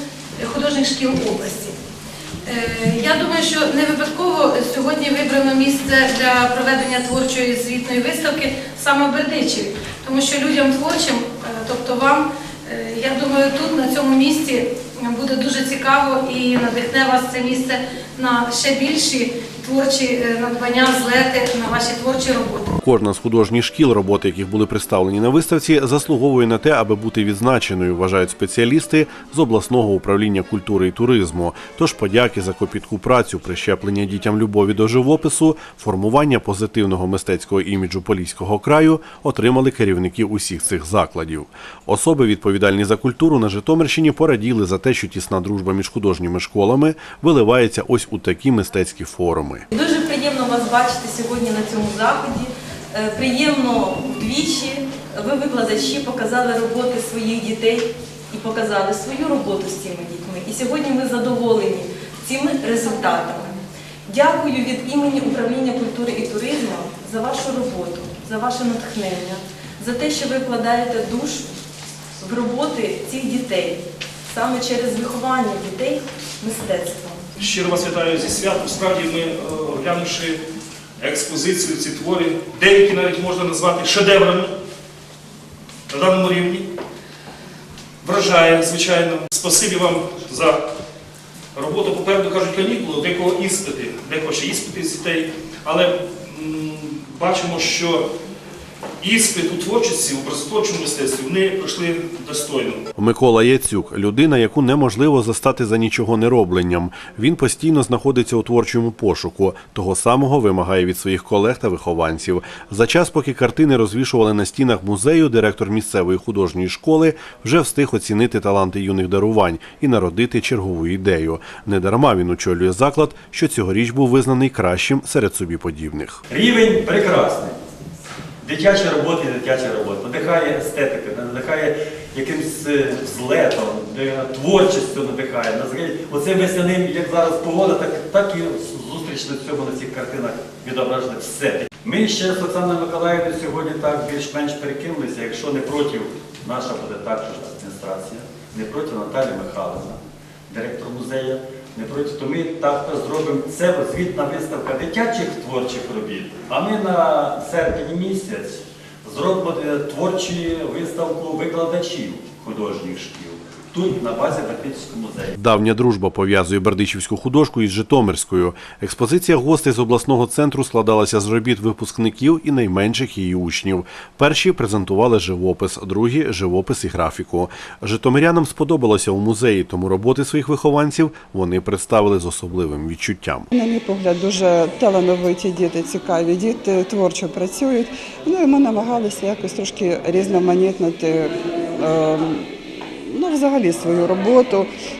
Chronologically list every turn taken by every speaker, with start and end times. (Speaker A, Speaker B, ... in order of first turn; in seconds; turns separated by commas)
Speaker A: 0.4-1.8, Speaker A: 2.4-22.8, Speaker B: 22.8-49.6, Speaker C: 49.7-71.6, Speaker C: 72.1-77.3, Speaker D: 77.4-80.4, Speaker D: 81.0-84.5, Speaker D: 85.9-86.7, Speaker D: 88.0-90.6, Speaker D: 91.5-98.1, Speaker D: 99.0-102.8, Speaker B: 103.0-126.2, Speaker E: 126.3-127.7, Speaker E: 128.4-165.3, Speaker B: 165.4-183.5, Speaker F: 183.5-194.7